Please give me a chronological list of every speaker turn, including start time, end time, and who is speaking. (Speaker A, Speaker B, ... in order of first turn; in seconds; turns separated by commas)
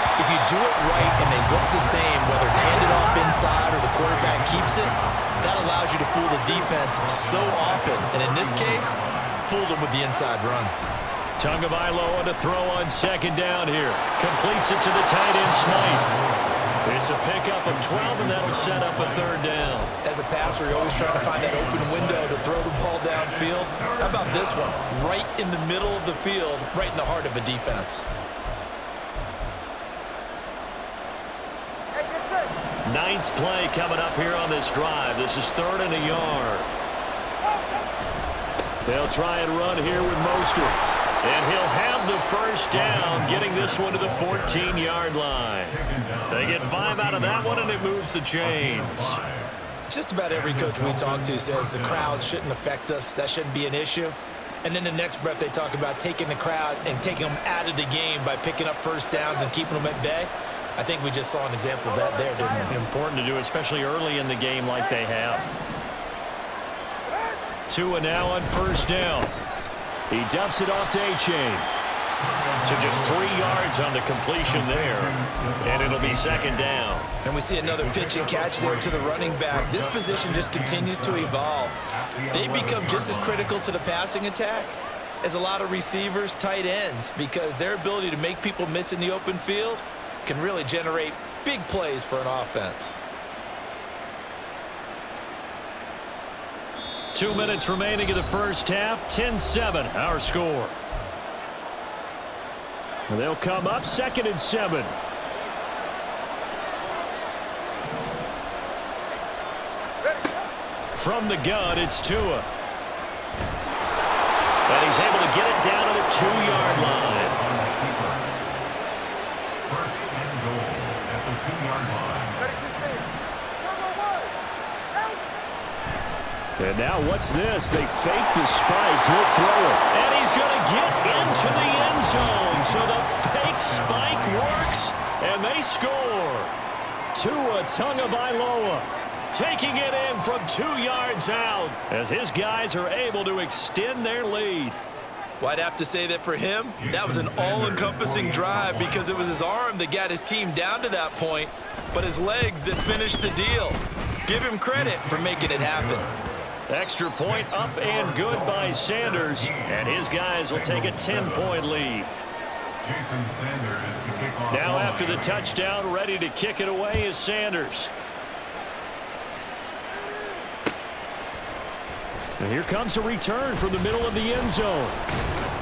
Speaker A: 0.2-10.7, Speaker B: 1.7-3.3, Speaker B: 3.9-5.7, Speaker B: 6.5-9.4, Speaker C: 11.4-16.1, Speaker B: 15.4-19.4, Speaker C: 16.8-19.9, Speaker A: 20.0-28.1, Speaker B: 20.4-25.0, Speaker C: 32.9-36.7, Speaker C: 38.9-49.2, Speaker B: 42.7-45.0, Speaker B: 45.7-49.6, Speaker A: 49.9-62.8, Speaker B: 50.3-52.4, Speaker C: 62.7-65.5, Speaker C: 67.7-69.4, Speaker C: 70.1-71.7, Speaker B: 72.2-73.9, Speaker C: 72.7-77.1, Speaker B: 74.4-76.8, Speaker A: 77.2-81.8, Speaker B: 77.6-83.7, Speaker A: 82.3-93.0, Speaker C: 97.1-100.8, Speaker C: 103.1-105.0, Speaker C: 110.9-112.5, Speaker C: 114.7-117.4, Speaker B: 116.2-118.7, Speaker B: 119.6-122.6, Speaker C: 126.6-136.5, Speaker B: 133.4-134.8, Speaker C: 137.1-144.8, Speaker A: 145.4-156.1, Speaker B: 146.8-149.4, Speaker B: 154.7-156.2, Speaker C: 156.7-162.1, Speaker B: 157.2-161.7, Speaker B: 162.8-165.5, Speaker C: 164.5-167.9, Speaker C: 172.4-175.0